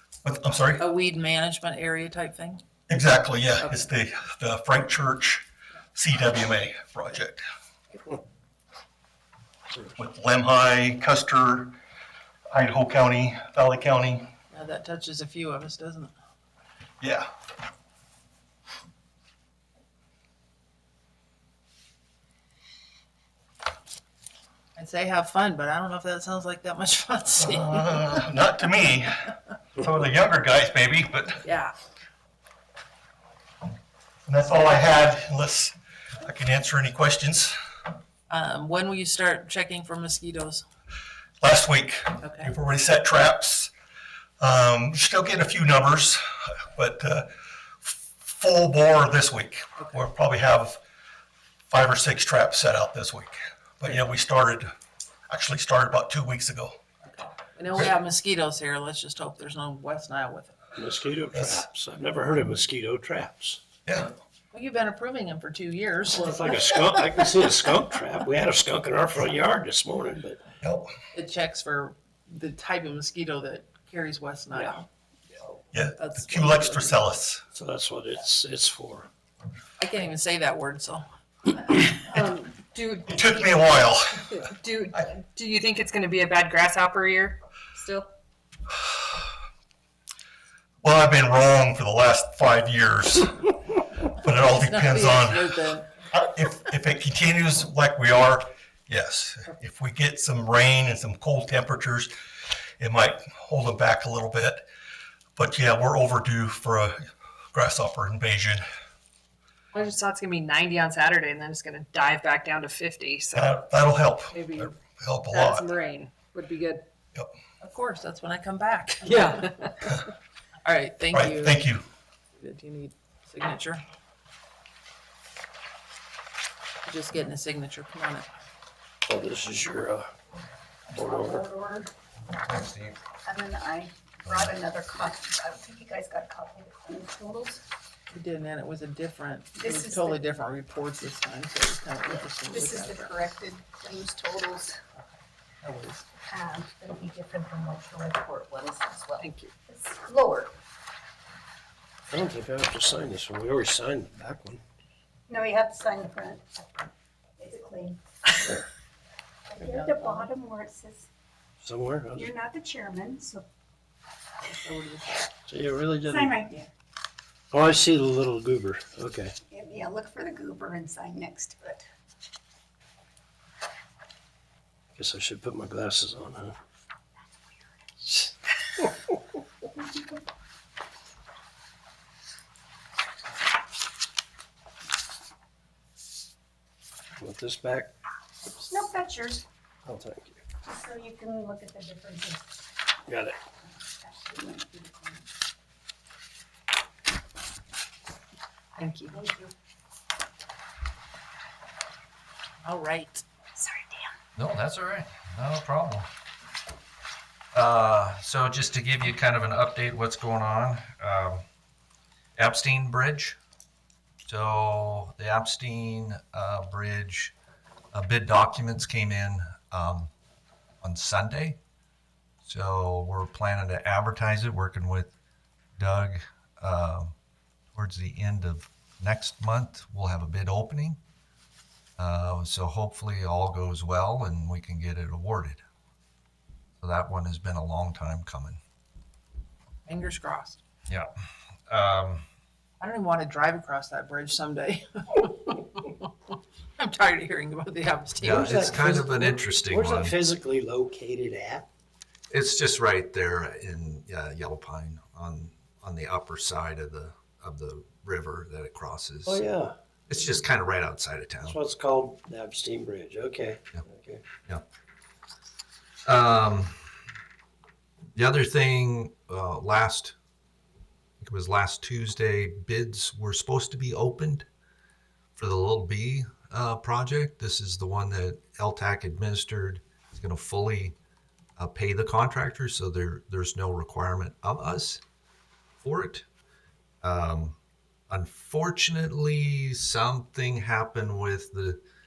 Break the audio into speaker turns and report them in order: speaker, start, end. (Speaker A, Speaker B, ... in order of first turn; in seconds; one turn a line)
Speaker A: 0.2-0.9
Speaker B: 0.8-2.6
Speaker A: 2.9-7.4
Speaker B: 3.6-3.9
Speaker A: 10.0-11.8
Speaker A: 12.5-14.3
Speaker B: 14.5-16.1
Speaker A: 17.0-17.3
Speaker B: 24.8-28.2
Speaker A: 27.4-31.4
Speaker B: 31.4-31.7
Speaker A: 34.3-37.6
Speaker B: 38.3-40.6
Speaker A: 41.4-43.7
Speaker B: 42.2-42.5
Speaker A: 44.4-47.3
Speaker A: 47.8-50.8
Speaker A: 51.7-54.7
Speaker A: 55.3-56.8
Speaker B: 57.1-60.6
Speaker C: 60.8-63.6
Speaker A: 63.9-64.1
Speaker B: 64.5-66.5
Speaker C: 66.1-70.4
Speaker A: 70.6-70.9
Speaker B: 71.1-74.9
Speaker A: 75.7-77.4
Speaker B: 76.0-77.0
Speaker C: 77.5-79.1
Speaker B: 79.8-81.8
Speaker D: 81.9-83.6
Speaker A: 83.1-84.4
Speaker D: 84.4-88.1
Speaker A: 90.8-93.5
Speaker A: 94.2-95.5
Speaker B: 94.5-95.9
Speaker A: 96.1-102.1
Speaker A: 102.8-104.7
Speaker A: 105.4-108.6
Speaker D: 109.7-113.6
Speaker A: 113.3-115.7
Speaker D: 114.3-114.7
Speaker D: 115.3-116.9
Speaker B: 117.6-119.5
Speaker D: 119.0-119.9
Speaker B: 120.6-121.6
Speaker A: 121.1-121.8
Speaker B: 122.4-123.8
Speaker B: 126.8-128.3
Speaker C: 129.1-130.1
Speaker C: 130.9-131.5
Speaker E: 131.0-131.9
Speaker F: 132.5-133.0
Speaker E: 133.2-137.6
Speaker B: 138.1-143.1
Speaker E: 139.6-140.2
Speaker E: 142.1-144.8
Speaker B: 145.6-146.0
Speaker E: 146.3-150.5
Speaker B: 149.2-149.5
Speaker C: 152.1-154.6
Speaker E: 155.3-156.8
Speaker E: 157.4-158.6
Speaker E: 159.5-161.1
Speaker B: 159.6-160.3
Speaker C: 161.6-162.3
Speaker E: 162.2-163.4
Speaker B: 164.5-165.3
Speaker C: 165.5-166.4
Speaker E: 166.1-166.6
Speaker C: 167.5-169.4
Speaker E: 169.5-171.8
Speaker C: 175.0-176.6
Speaker C: 178.1-178.9
Speaker C: 187.2-187.9
Speaker E: 188.7-189.4
Speaker C: 189.8-190.4
Speaker E: 190.7-192.6
Speaker C: 193.1-193.4
Speaker E: 193.7-195.2
Speaker B: 198.8-199.2
Speaker E: 199.1-199.5
Speaker B: 202.6-203.2
Speaker E: 203.6-204.1
Speaker F: 204.4-206.1
Speaker F: 207.5-211.4
Speaker F: 212.4-213.4
Speaker F: 214.3-217.3
Speaker F: 217.9-220.1
Speaker F: 220.8-221.6
Speaker F: 222.5-225.1
Speaker F: 225.8-227.1
Speaker F: 227.7-231.0
Speaker F: 232.0-235.6
Speaker F: 236.8-238.6
Speaker B: 239.9-240.6
Speaker F: 241.7-242.2
Speaker B: 242.8-246.1
Speaker B: 246.8-248.6
Speaker C: 248.2-251.7
Speaker F: 248.2-250.1
Speaker F: 252.3-259.4
Speaker C: 259.2-259.8
Speaker F: 260.1-261.6
Speaker C: 261.4-264.2
Speaker F: 266.1-266.8
Speaker F: 268.1-270.1
Speaker F: 271.2-274.5
Speaker F: 275.4-281.0
Speaker F: 281.6-285.0
Speaker F: 285.8-286.2
Speaker F: 287.0-287.6
Speaker F: 288.1-291.8